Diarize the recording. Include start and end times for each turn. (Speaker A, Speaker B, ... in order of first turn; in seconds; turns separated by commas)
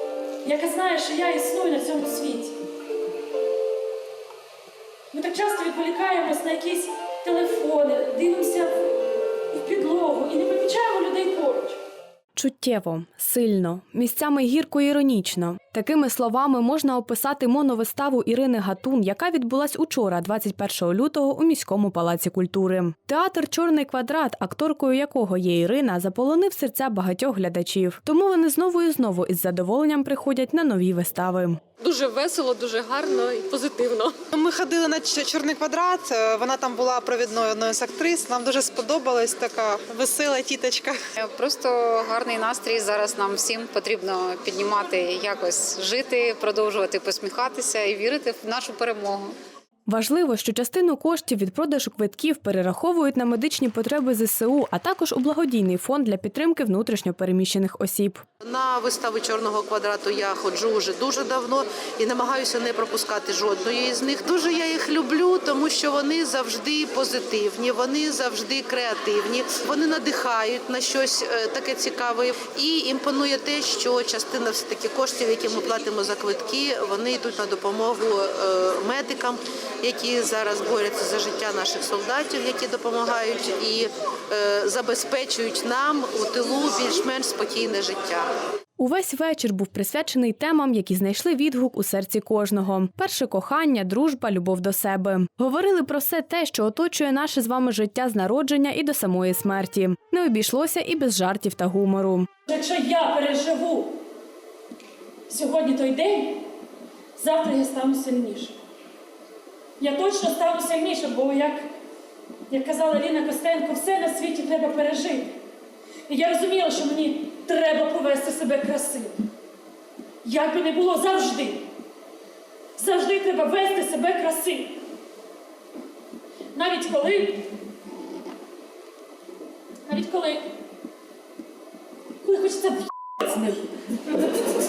Speaker A: 0.4-2.5, Speaker A: 5.1-8.9, Speaker A: 9.5-11.8, Speaker B: 12.4-31.6, Speaker C: 31.8-34.2, Speaker D: 34.3-41.0, Speaker E: 41.2-49.3, Speaker B: 49.9-58.2, Speaker F: 58.4-88.3, Speaker B: 88.8-102.3, Speaker A: 102.5-104.0, Speaker A: 105.3-106.4, Speaker A: 107.2-108.6, Speaker A: 109.8-111.7, Speaker A: 112.5-115.4, Speaker A: 116.1-119.2, Speaker A: 120.2-121.7, Speaker A: 122.8-124.8, Speaker A: 126.5-127.5, Speaker A: 129.9-130.5, Speaker A: 132.2-133.6